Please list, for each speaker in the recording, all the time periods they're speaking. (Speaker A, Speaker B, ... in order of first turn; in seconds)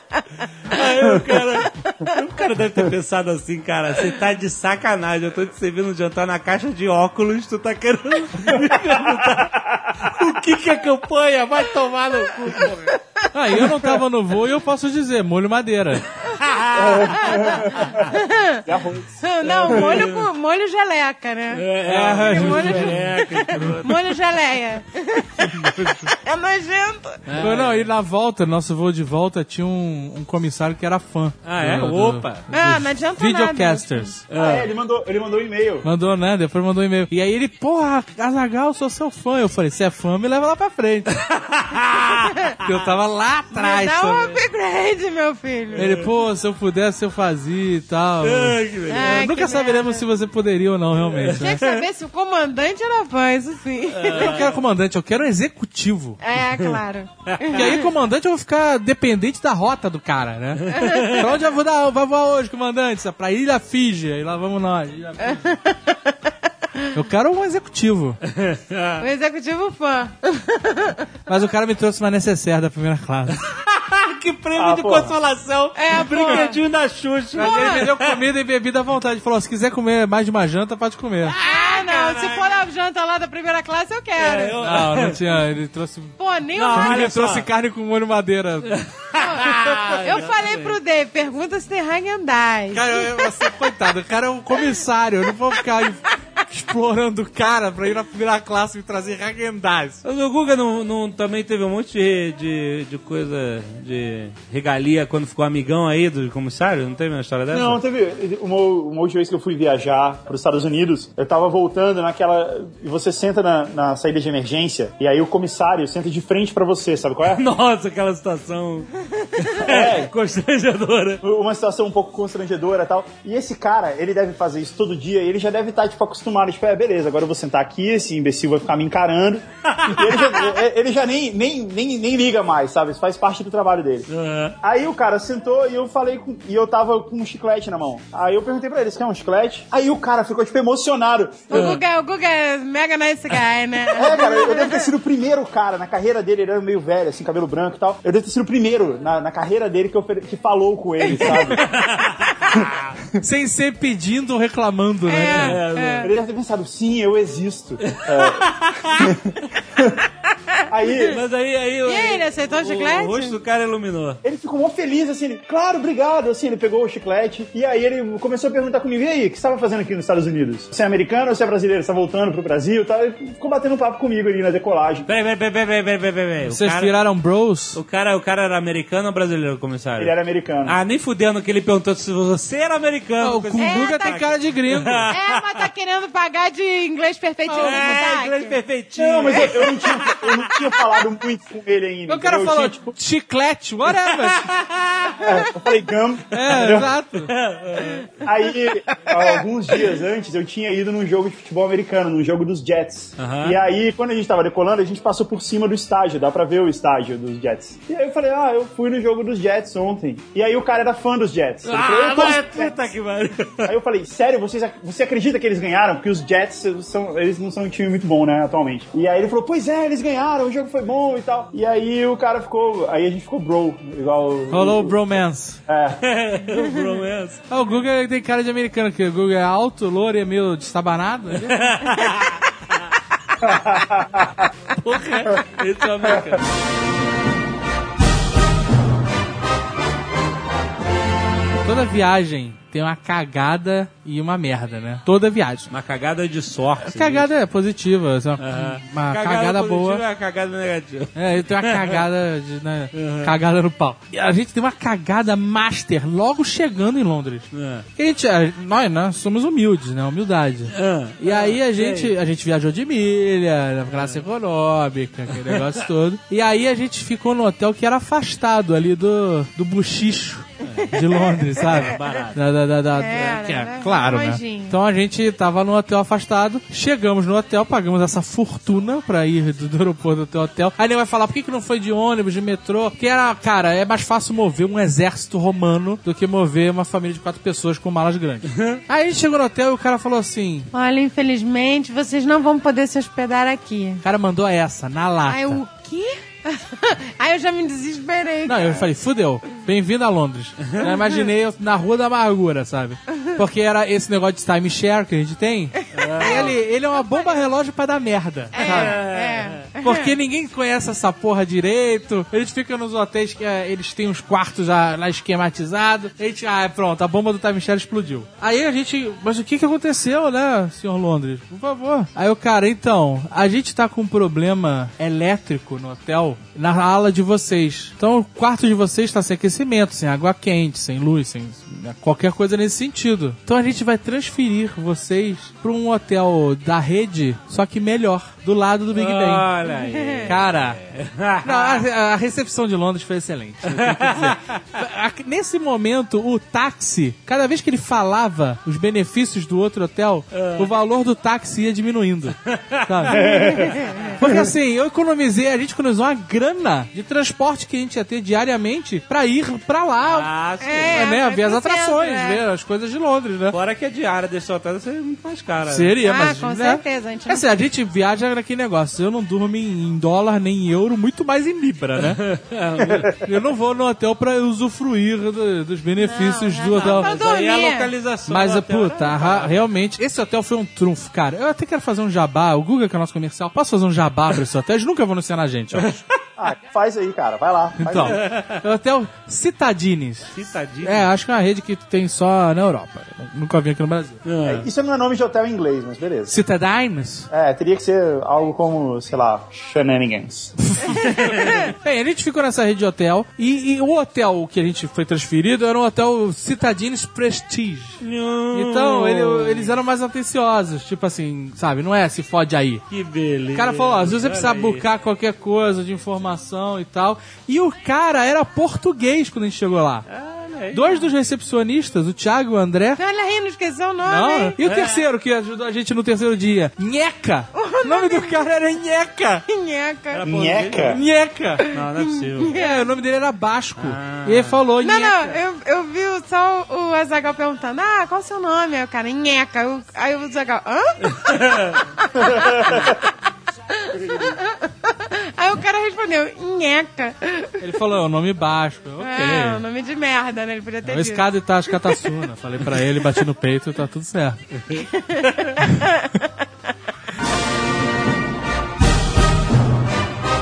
Speaker A: 0.7-13.0, 16.3-18.0, 19.4-20.3, 21.5-24.2, 27.3-27.9, 31.4-32.4, 34.3-34.7, 41.1-42.3, 45.7-46.1, 48.2-49.3, 51.0-51.9, 53.9-54.6, 56.4-57.8, 60.6-61.2, 68.3-69.0, 73.4-78.2, 81.3-82.6, 84.2-85.3, 86.5-87.5, 88.7-90.8, 100.0-107.8, 117.3-121.2, 129.7-130.5, 134.1-134.6, 141.5-141.8, 151.1-152.9, 155.2-156.1, 157.8-159.1, 161.1-164.2, 175.1-176.9, 177.7-180.1, 180.6-185.7, 187.5-190.4, 194.1-195.2, 197.2-198.1, 203.2-203.6, 211.6-213.7, 226.0-227.4, 231.4-232.4, 234.8-236.4, 245.7-247.3, 248.4-252.0, 252.9-253.3, 257.5-257.9, 260.7-262.1, 263.9-264.2, 265.4-265.8, 270.6-270.9, 271.6-272.4, 288.5-288.8, 305.9-306.6, 308.6-309.7, 338.9-341.9, 343.6-344.6, 350.3-350.7, 352.4-354.2, 360.0-361.1, 363.5-366.0, 372.0-373.2, 376.7-379.7, 385.7-386.2, 388.0-388.6, 390.3-391.1, 394.2-394.7, 401.2-401.6, 408.0-409.8, 412.9-414.8, 420.1-420.8, 424.6-425.0, 430.1-431.0, 431.7-432.6, 433.8-434.6, 441.2-441.8, 454.6-455.5
Speaker B: 13.3-16.0, 21.8-23.8, 25.6-26.1, 27.4-34.2, 35.8-41.1, 42.6-44.4, 45.7-51.6, 54.1-56.2, 57.5-65.5, 66.9-68.2, 71.3-73.4, 75.9-76.5, 77.3-81.3, 84.6-86.2, 86.7-88.8, 92.7-100.0, 153.2-155.6, 176.5-177.8, 183.2-185.1, 187.4-188.0, 192.1-194.5, 196.3-197.3, 224.5-225.6, 227.5-231.8, 241.6-245.7, 246.8-250.0, 251.1-290.7, 294.0-295.6, 298.4-309.0, 309.8-339.5, 340.3-340.8, 341.4-353.4, 354.2-360.3, 360.9-363.6, 365.7-372.2, 373.0-377.1, 378.3-386.0, 387.8-394.2, 396.3-397.3, 400.6-408.0, 408.5-412.8, 413.5-420.1, 420.7-423.0, 424.0-429.4, 430.9-431.6, 432.5-435.4, 447.6-449.6, 450.8-454.4
Speaker C: 16.7-20.1, 34.4-35.9, 74.5-75.1, 107.5-117.4, 119.6-120.1, 121.2-134.1, 134.6-141.7, 143.9-151.7, 156.0-160.0, 160.7-161.2, 164.2-175.1, 180.0-180.8, 188.9-192.9, 195.2-196.9, 198.2-212.8, 213.6-225.0, 225.7-226.0, 233.4-234.5, 353.1-353.9, 386.4-388.2, 394.4-396.3, 397.3-400.5, 430.2-431.0
Speaker D: 17.1-18.6, 19.2-21.7, 22.2-27.4, 32.5-34.1, 42.1-42.6, 43.5-46.0, 48.9-50.0, 51.2-54.5, 56.2-57.9, 60.7-61.3, 65.2-66.1, 69.0-71.0, 75.8-76.6, 77.4-77.9, 81.4-84.6, 86.2-87.1, 89.2-93.2, 141.5-144.9, 155.1-156.1, 161.8-163.3, 183.6-184.2, 185.1-188.6, 197.8-198.0, 272.9-274.8, 290.7-294.0, 295.2-298.9, 305.9-307.4, 308.5-310.1, 339.6-340.3, 353.2-354.1, 360.6-362.4, 366.0-367.5, 376.0-377.9, 423.0-424.5, 427.6-428.5, 429.5-430.2, 431.6-432.9, 434.8-443.1, 443.8-447.6, 449.0-451.3, 455.0-456.2